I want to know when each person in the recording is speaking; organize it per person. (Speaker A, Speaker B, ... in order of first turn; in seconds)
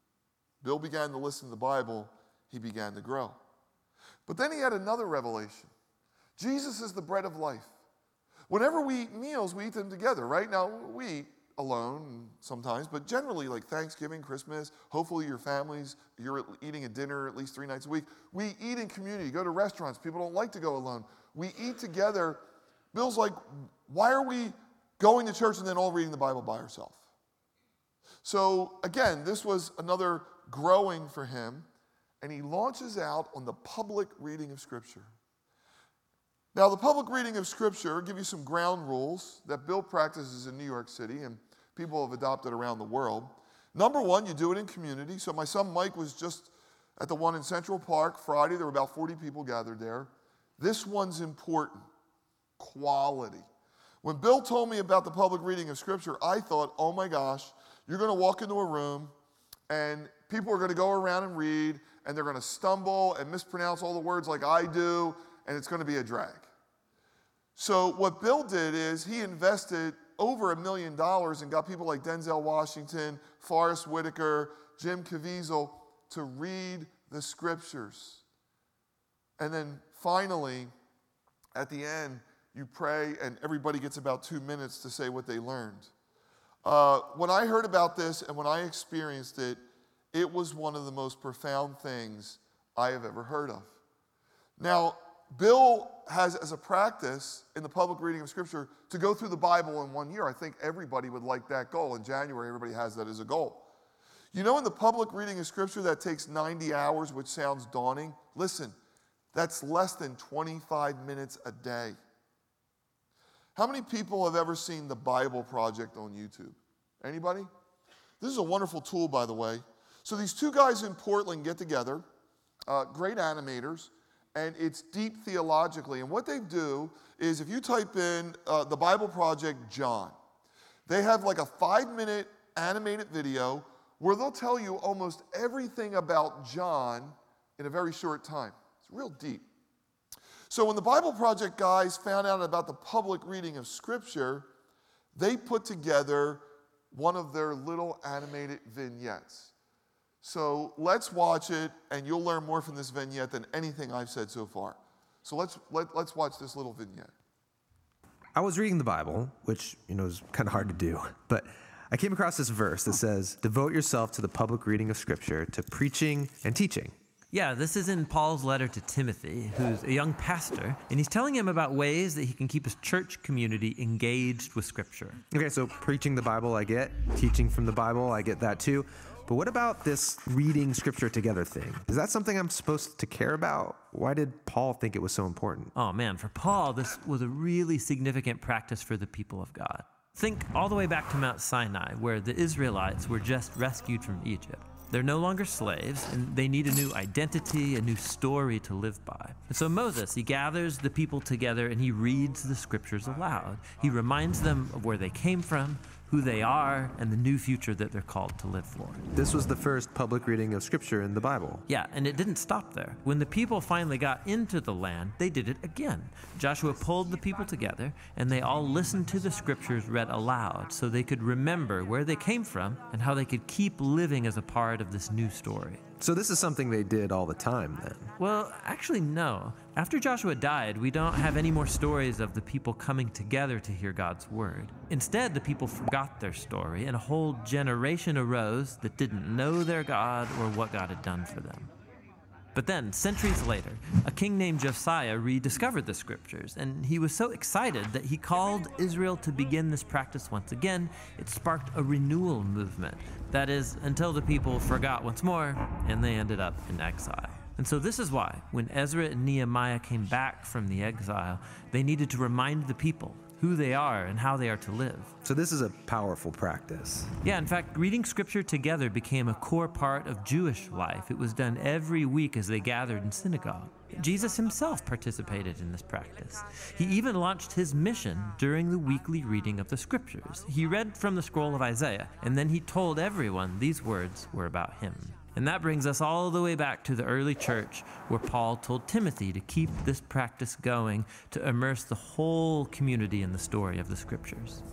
Speaker A: 0.6-3.4, 4.3-5.7, 6.4-7.7, 8.5-22.4, 22.9-27.0, 28.2-31.7, 32.2-35.1, 36.5-51.9, 52.6-53.5, 54.0-59.1, 59.7-66.5, 67.6-78.2, 79.4-80.7, 81.6-85.9, 86.7-89.6, 90.1-93.7, 94.6-103.7, 104.3-108.8, 109.3-112.0, 113.6-117.5, 118.2-122.0, 122.7-130.2, 130.9-139.5, 140.5-144.5, 145.1-149.5, 150.2-157.1
Speaker B: 158.3-167.0, 175.3-185.7, 209.1-211.6, 226.0-228.1, 265.2-267.1
Speaker C: 167.3-175.2, 185.8-209.0, 211.7-225.8, 228.2-241.7, 242.6-265.1, 267.2-294.6